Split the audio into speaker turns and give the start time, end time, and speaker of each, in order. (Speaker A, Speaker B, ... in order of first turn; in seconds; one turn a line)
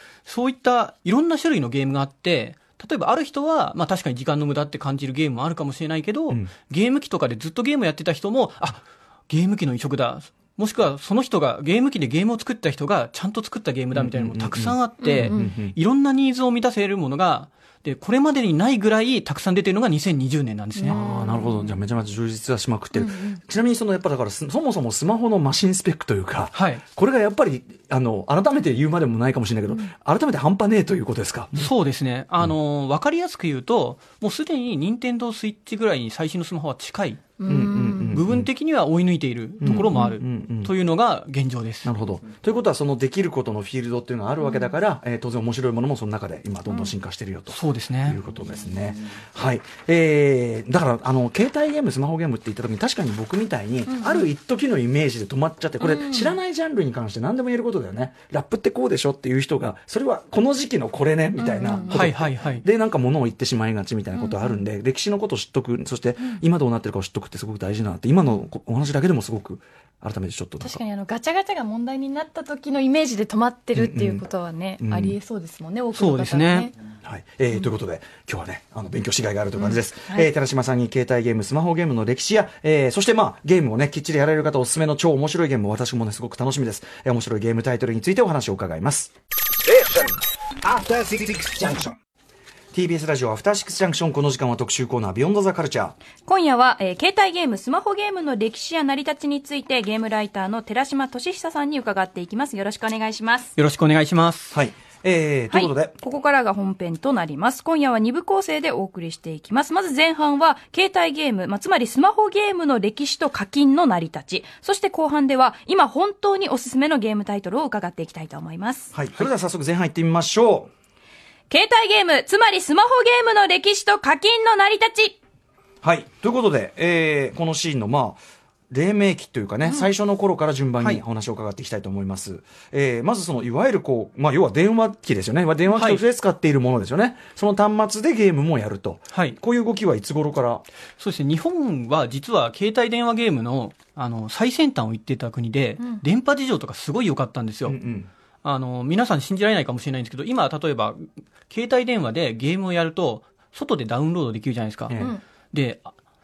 Speaker A: 0.2-21.0
Speaker B: 13.9-15.8
Speaker C: 15.0-15.5
Speaker C: 20.8-21.7
Speaker B: 20.9-31.7
Speaker C: 22.9-23.4
Speaker A: 26.5-26.8
Speaker A: 31.5-37.4
Speaker C: 37.4-38.2
Speaker B: 37.4-38.5
Speaker A: 38.0-41.9
Speaker B: 39.6-40.7
Speaker C: 39.6-40.1
Speaker B: 41.8-70.8
Speaker A: 47.5-48.2
Speaker C: 56.0-56.3
Speaker C: 61.4-61.9
Speaker A: 61.9-62.6
Speaker C: 64.2-64.5
Speaker C: 70.6-76.7
Speaker B: 73.7-74.2
Speaker B: 74.8-75.2
Speaker A: 75.9-76.7
Speaker B: 77.0-89.1
Speaker C: 79.6-80.2
Speaker D: 89.7-91.9
Speaker B: 92.7-95.9
Speaker E: 96.2-103.5
Speaker A: 103.5-104.6
Speaker B: 104.5-105.9
Speaker E: 105.5-118.9
Speaker B: 118.9-120.7
Speaker E: 121.5-125.2
Speaker B: 125.8-140.6
Speaker A: 135.7-136.0
Speaker A: 139.1-139.4
Speaker A: 141.0-147.8
Speaker B: 147.7-148.1
Speaker A: 148.4-155.9
Speaker B: 154.9-155.2
Speaker C: 154.9-155.2